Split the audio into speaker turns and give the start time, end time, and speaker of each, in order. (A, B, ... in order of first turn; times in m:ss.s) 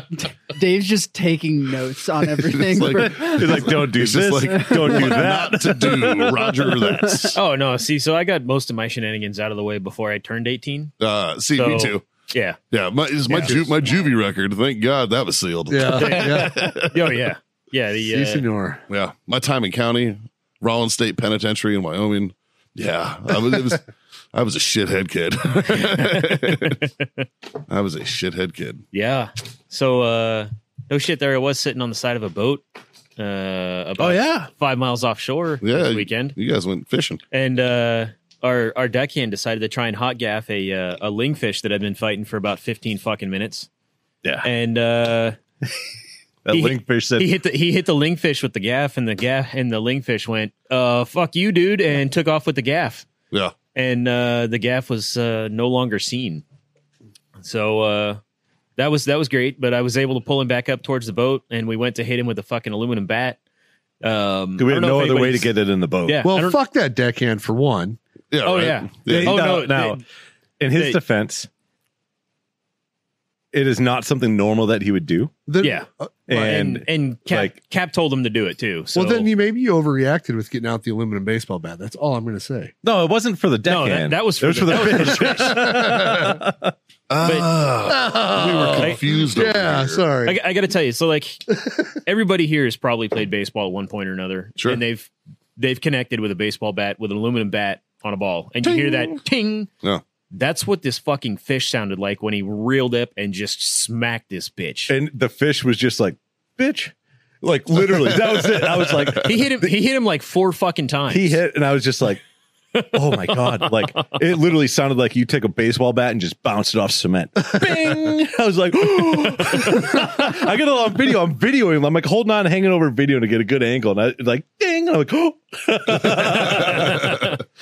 0:00.2-0:03.8 A
0:02.3-0:07.4 B
0:03.0-0:06.1 C
0:04.5-0:05.2 A
0:05.9-0:07.3 A
0:07.3-0:10.9 D
0:11.0-0:12.0 B
0:11.6-0:12.6 D
0:12.7-0:17.2 B
0:13.3-0:13.6 D
0:13.4-0:13.6 E
0:15.7-0:16.7 E
0:16.0-0:18.4 D
0:18.1-0:18.8 E
0:18.9-0:26.8 B
0:26.0-0:26.7 D
0:27.7-0:28.9 B
0:28.9-0:32.6 D
0:33.2-0:36.4 D
0:34.0-0:34.5 C
0:35.6-0:37.2 B
0:37.3-0:43.7 D
0:44.4-0:45.4 D
0:46.4-0:47.4 C
0:46.5-0:53.1 D
0:53.7-0:56.4 D
0:57.4-0:58.2 D
0:58.8-1:03.4 D
1:04.0-1:05.5 D
1:04.6-1:06.3 C
1:06.0-1:06.6 D
1:06.2-1:08.0 E
1:08.3-1:09.4 B
1:08.4-1:10.0 D
1:09.1-1:10.0 C
1:10.6-1:11.5 C
1:10.7-1:11.0 D
1:13.5-1:15.4 C
1:15.5-1:16.5 E
1:15.6-1:19.3 D
1:16.3-1:17.6 C
1:18.9-1:22.7 E
1:22.8-1:26.7 C
1:23.7-1:25.8 D
1:25.6-1:26.4 B
1:27.1-1:30.1 B
1:27.2-1:27.6 D
1:27.8-1:30.4 E
1:28.7-1:29.0 D
1:30.2-1:39.7 D
1:38.6-1:39.2 B
1:40.3-1:44.9 D
1:44.9-1:49.7 C
1:47.9-1:49.4 B
1:49.2-1:51.4 D
1:51.1-1:52.2 C
1:52.8-1:53.9 D
1:52.9-2:07.2 C
1:59.4-2:00.0 D
2:06.3-2:07.4 D
2:06.3-2:07.4 B